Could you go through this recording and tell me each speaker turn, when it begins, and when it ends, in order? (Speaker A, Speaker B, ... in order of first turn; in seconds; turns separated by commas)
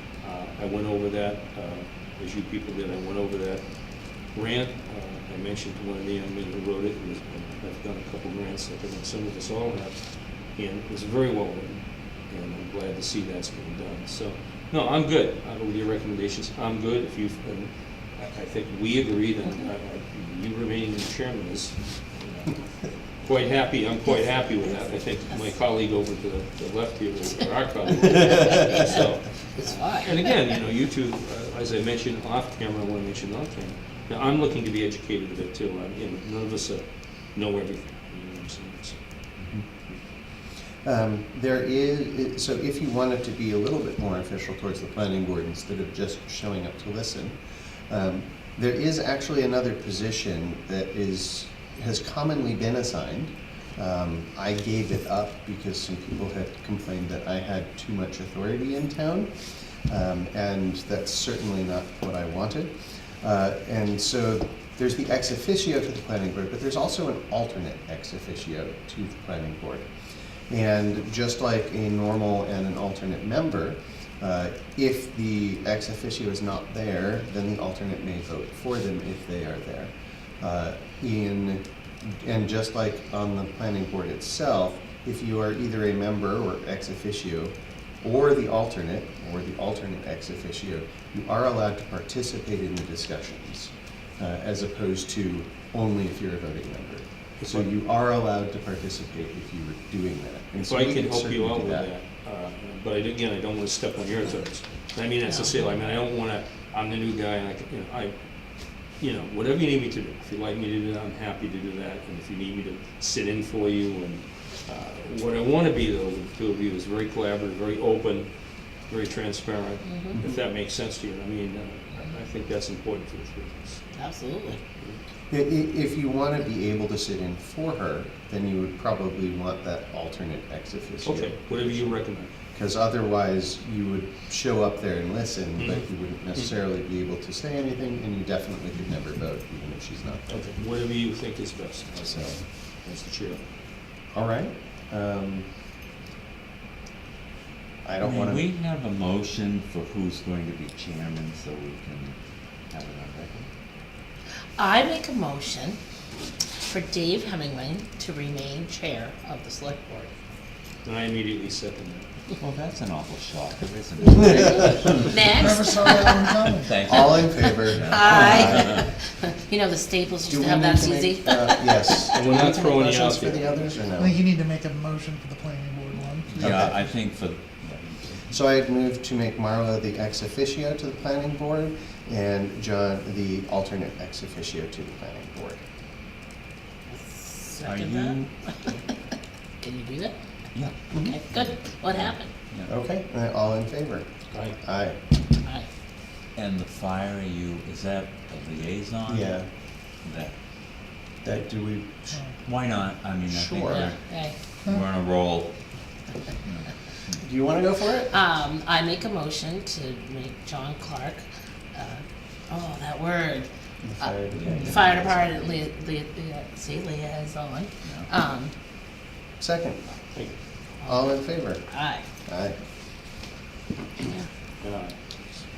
Speaker A: 0.2-3.6, Speaker A: 4.3-10.0, Speaker A: 10.5-39.0, Speaker B: 29.6-30.2, Speaker C: 39.4-39.7, Speaker C: 40.8-47.4, Speaker C: 47.9-69.9, Speaker C: 70.5-101.9, Speaker A: 97.4-97.7, Speaker A: 100.6-108.2, Speaker A: 109.0-118.3, Speaker A: 118.9-123.8, Speaker B: 119.9-120.2, Speaker B: 124.0-124.6, Speaker C: 125.3-132.0, Speaker A: 131.0-132.3, Speaker C: 132.5-140.5, Speaker A: 135.6-135.8, Speaker A: 140.3-143.4, Speaker C: 142.0-142.4, Speaker C: 144.1-145.5, Speaker C: 147.8-148.4, Speaker D: 148.0-152.2, Speaker D: 152.7-153.5, Speaker B: 154.6-155.8, Speaker B: 156.6-160.1, Speaker A: 160.8-162.1, Speaker D: 162.4-165.6, Speaker B: 165.1-172.3, Speaker E: 165.4-166.8, Speaker D: 166.6-168.8, Speaker C: 166.8-168.8, Speaker C: 170.3-174.2, Speaker A: 172.1-173.8, Speaker E: 173.9-176.5, Speaker D: 176.3-178.3, Speaker C: 176.4-176.8, Speaker C: 178.3-185.6, Speaker B: 186.9-188.8, Speaker D: 187.6-188.3, Speaker B: 189.6-190.1, Speaker D: 190.5-192.7, Speaker C: 190.9-191.2, Speaker B: 191.0-192.3, Speaker C: 192.7-194.1, Speaker C: 194.6-195.0, Speaker D: 196.3-199.4, Speaker C: 199.1-199.5, Speaker D: 200.0-200.3, Speaker C: 201.2-202.2, Speaker D: 202.4-204.0, Speaker C: 203.3-203.9, Speaker B: 203.6-204.4, Speaker D: 204.6-205.6, Speaker D: 206.4-207.2, Speaker C: 207.2-208.2, Speaker B: 208.1-211.2, Speaker B: 211.8-213.5, Speaker C: 213.8-215.6, Speaker B: 214.0-218.5, Speaker D: 214.3-215.2, Speaker C: 219.4-219.8, Speaker B: 220.8-222.0, Speaker C: 220.8-221.7, Speaker C: 222.3-222.6, Speaker A: 224.6-224.9